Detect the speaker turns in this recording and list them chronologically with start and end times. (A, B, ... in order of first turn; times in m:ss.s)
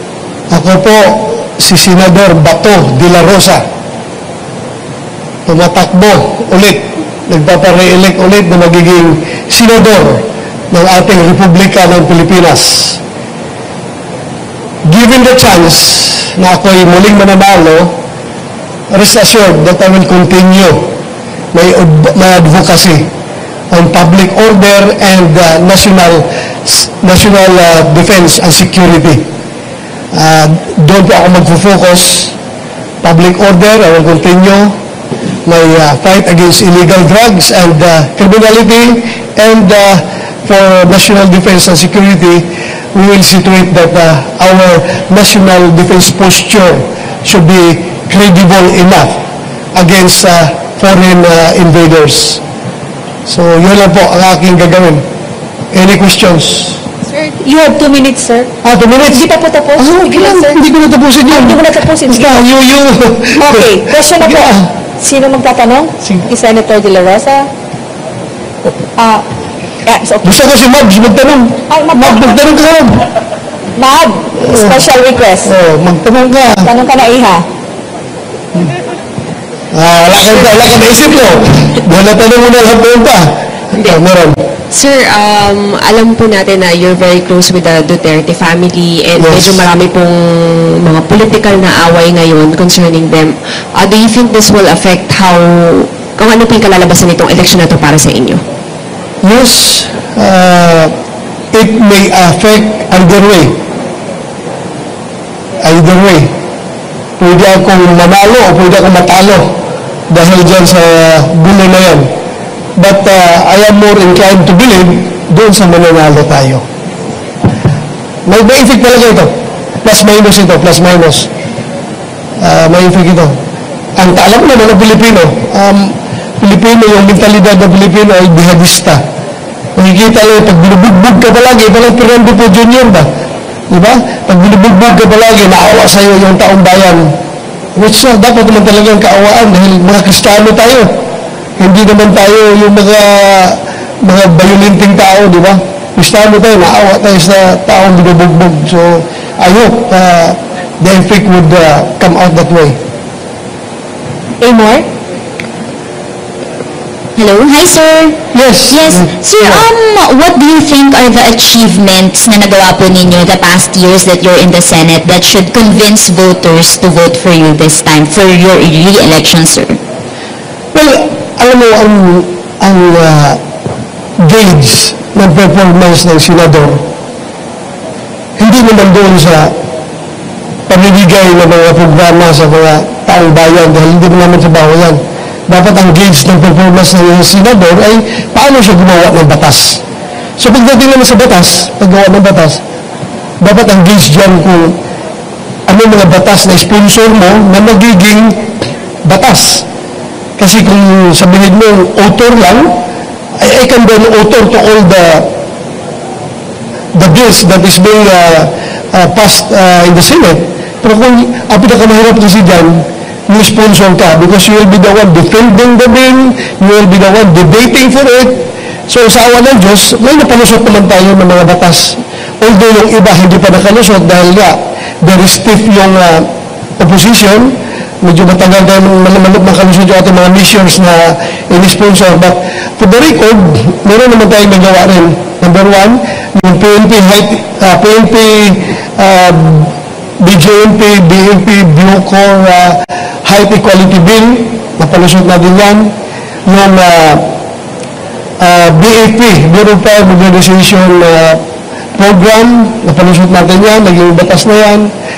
0:00.5-0:03.6 A
0:05.4-0:13.0 A
0:14.9-0:17.9 A
0:18.9-0:20.9 A
0:21.5-0:23.1 A
0:23.7-0:29.2 A
0:30.1-0:32.3 A
0:33.0-0:34.7 A
0:35.4-0:49.2 A
0:49.7-0:52.4 A
0:53.3-0:55.0 A
0:55.7-0:56.8 A
0:57.2-0:58.5 B
0:58.6-0:59.2 A
0:59.1-1:00.6 B
0:59.8-1:04.7 A
1:01.3-1:02.4 B
1:03.3-1:04.5 B
1:05.0-1:07.5 B
1:06.0-1:06.3 A
1:09.0-1:09.2 B
1:09.8-1:10.3 B
1:10.2-1:13.0 A
1:11.7-1:12.2 B
1:13.8-1:15.5 B
1:14.4-1:14.8 A
1:15.4-1:16.7 A
1:16.6-1:17.4 B
1:19.7-1:24.4 A
1:24.7-1:38.4 C
1:29.2-1:29.6 A
1:39.2-1:40.9 A
1:41.5-1:43.6 A
1:45.6-1:46.3 A
1:47.2-1:49.5 A
1:50.1-1:52.1 A
1:52.8-1:56.6 A
1:58.3-1:59.3 A
1:59.8-2:01.3 A
2:02.4-2:03.4 A
2:04.0-2:09.0 A
2:09.8-2:13.1 A
2:13.7-2:17.1 A
2:17.8-2:20.9 A
2:21.6-2:32.8 A
2:34.4-2:34.8 B
2:37.2-2:38.1 D
2:38.3-2:39.6 A
2:38.7-2:49.8 D
2:50.7-2:53.4 A
2:54.2-2:56.8 A
2:58.4-2:59.5 A
3:00.7-3:09.8 A
3:10.4-3:12.6 A
3:13.4-3:14.8 A
3:15.7-3:18.5 A
3:19.0-3:19.6 A
3:20.4-3:22.7 A
3:23.4-3:25.3 A
3:26.9-3:46.3 A
3:46.8-4:05.9 A
4:06.5-4:07.2 A
4:08.4-4:11.4 A
4:12.0-4:14.9 A